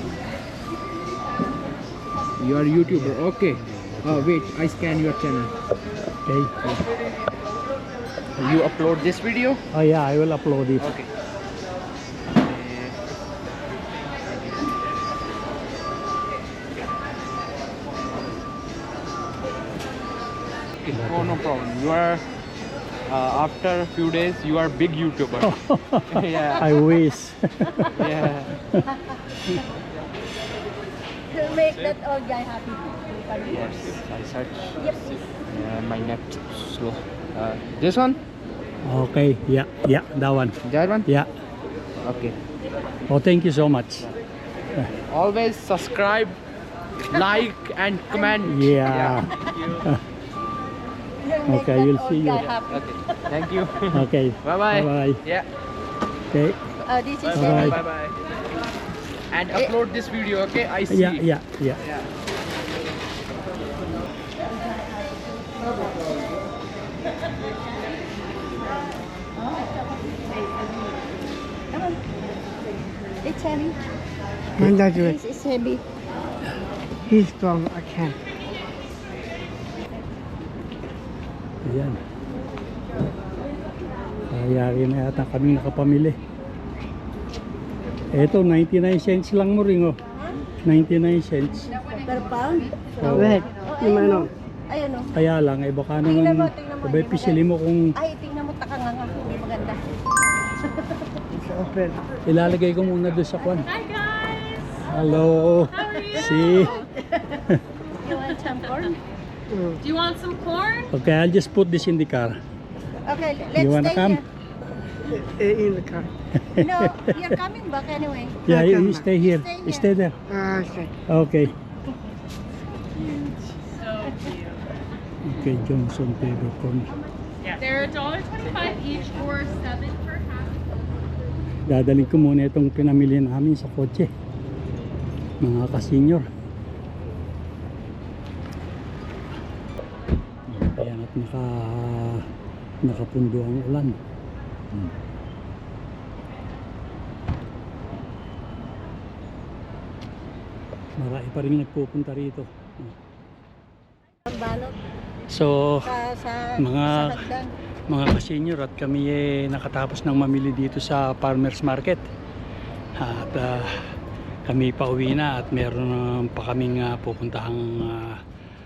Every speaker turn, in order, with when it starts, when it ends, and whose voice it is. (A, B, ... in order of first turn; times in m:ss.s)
0:02.4-0:05.5 A
0:02.8-0:04.3 B
0:06.2-0:06.5 B
0:08.4-0:09.6 A
0:09.7-0:10.9 B
0:10.8-0:11.1 A
0:12.4-0:13.0 A
0:14.3-0:14.7 A
0:20.8-0:22.2 A
0:20.9-0:21.4 B
0:23.1-0:25.5 A
0:25.4-0:28.1 B
0:26.1-0:26.6 A
0:28.0-0:28.5 A
0:28.6-0:28.9 B
0:28.9-0:29.5 C
0:31.3-0:34.0 C
0:31.3-0:32.0 A
0:33.4-0:38.2 A
0:34.8-0:35.4 C
0:38.8-0:41.3 B
0:40.6-0:41.1 A
0:42.0-0:42.4 A
0:43.1-0:44.1 B
0:45.1-0:46.4 A
0:47.1-0:49.8 A
0:48.4-0:50.0 B
0:51.2-0:53.4 C
0:51.5-0:52.5 B
0:52.7-0:55.5 A
0:53.9-0:55.2 B
0:56.3-0:56.6 B
0:56.8-0:57.8 C
0:57.2-0:58.2 A
0:57.3-0:57.8 B
0:59.3-1:01.3 A
1:00.9-1:01.8 B
1:05.6-1:06.1 C
1:09.4-1:10.2 C
1:11.7-1:12.0 C
1:13.2-1:13.8 C
1:14.6-1:15.2 D
1:14.7-1:15.8 C
1:17.1-1:18.2 D
1:21.6-1:22.0 B
1:24.3-1:26.2 B
1:28.1-1:30.0 B
1:30.6-1:31.8 B
1:32.0-1:35.1 C
1:33.0-1:33.4 B
1:33.1-1:34.3 D
1:35.1-1:38.0 B
1:36.0-1:37.4 C
1:38.0-1:39.8 C
1:40.6-1:41.2 C
1:41.3-1:42.0 D
1:42.2-1:43.7 B
1:43.4-1:43.9 C
1:44.9-1:46.8 B
1:45.9-1:49.0 C
1:49.5-1:49.8 D
1:49.8-1:50.9 E
1:50.9-1:52.4 B
1:53.0-1:54.2 C
1:53.6-1:54.2 B
1:55.0-1:56.1 D
1:56.4-1:57.2 B
1:56.6-1:58.5 C
1:58.5-2:00.2 B
1:58.5-1:59.1 D
1:59.2-1:59.9 C
2:00.3-2:00.9 D
2:01.1-2:01.6 B
2:03.1-2:03.7 E
2:05.2-2:07.0 B
2:07.7-2:10.5 E
2:11.7-2:14.1 B
2:15.4-2:16.3 B
2:20.5-2:22.3 B
2:22.8-2:24.0 B
2:31.0-2:33.0 B
2:34.3-2:34.8 C
2:35.3-2:35.9 B
2:35.9-2:37.5 C
2:36.6-2:37.2 B
2:37.9-2:42.1 B
2:43.0-2:43.7 B
2:44.4-2:48.2 B